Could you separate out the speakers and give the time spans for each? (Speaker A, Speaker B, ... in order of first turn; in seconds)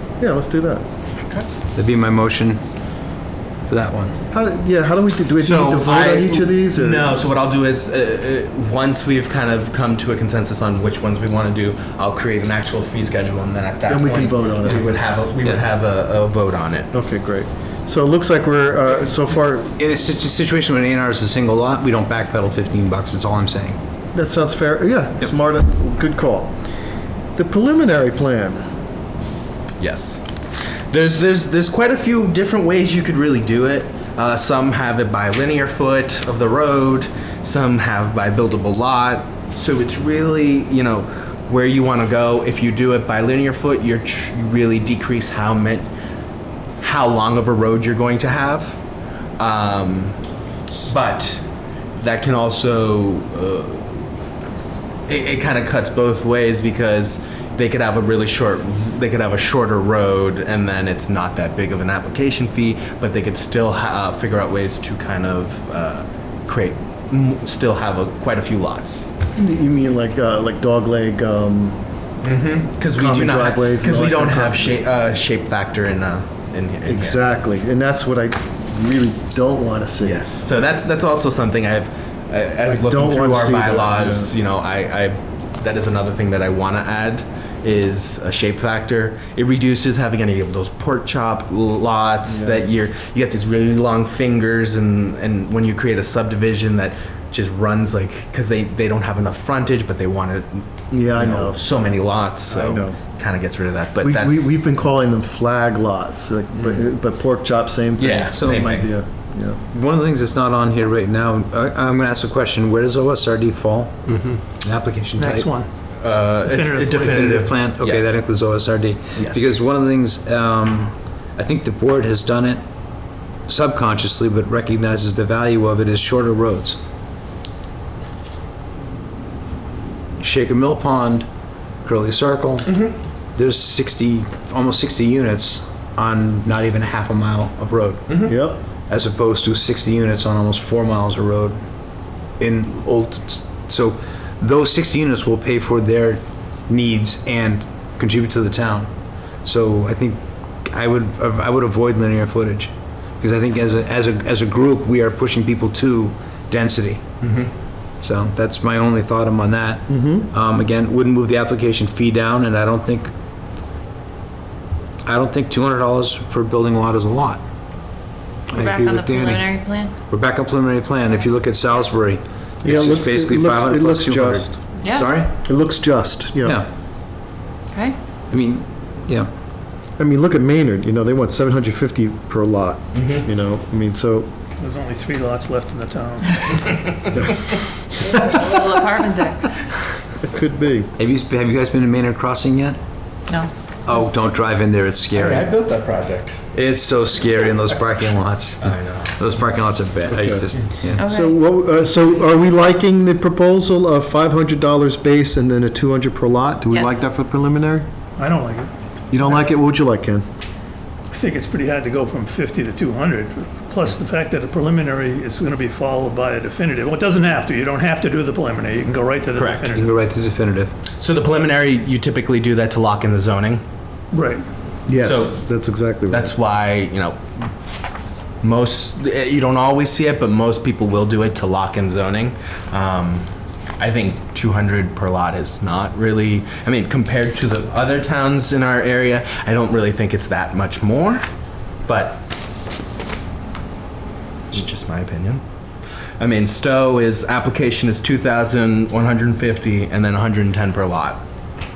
Speaker A: 0.2-0.8, 4.3-7.2, 13.8-14.9, 16.9-19.7, 24.1-26.5, 27.4-28.6, 69.3-71.8, 72.9-74.8, 76.8-80.2, 82.7-84.3, 92.3-92.6, 100.9-101.6, 102.5-103.0, 104.0-109.6, 138.2-138.6, 159.9-160.3, 172.6-174.6, 175.2-176.6, 180.0-184.3, 190.2-190.9, 200.1-200.5, 201.0-207.9, 209.1-210.2, 224.9-226.3
Speaker B: 1.8-2.6, 3.7-4.2, 19.8-23.8, 108.3-108.7, 109.7-113.9, 114.6-115.5, 117.0-122.6, 123.5-126.8, 130.2-131.3, 131.8-132.7, 133.3-138.4, 138.9-141.6, 142.4-148.9, 149.4-157.0, 158.0-163.1, 165.1-167.4, 168.5-169.6, 170.1-175.3, 178.3-179.3, 191.0-192.8, 193.8-195.5, 196.5-201.0, 219.8-220.7
Speaker C: 5.4-16.9, 29.8-30.2, 30.9-45.9, 46.8-48.8, 49.4-50.2, 50.8-51.4, 52.0-54.1, 55.1-69.1, 72.2-77.2, 80.0-104.5, 106.5-106.8, 108.0-108.9, 114.1-114.4, 116.0-118.2, 119.2-119.5, 132.7-132.9, 138.1-138.3, 157.2-157.5, 182.9-183.2, 195.1-196.4, 198.6-199.1, 219.3-219.8, 221.0-223.6, 225.0-225.4, 226.1-227.2, 228.4-233.3, 233.8-241.2, 241.8-242.2, 244.5-245.4, 246.2-251.2
Speaker D: 115.2-115.7, 116.3-117.5, 184.6-186.9, 208.2-209.4, 211.1-219.9, 224.1-224.4
Speaker E: 168.5-169.9, 174.8-175.1, 188.0-189.5, 201.0-201.4, 206.7-207.0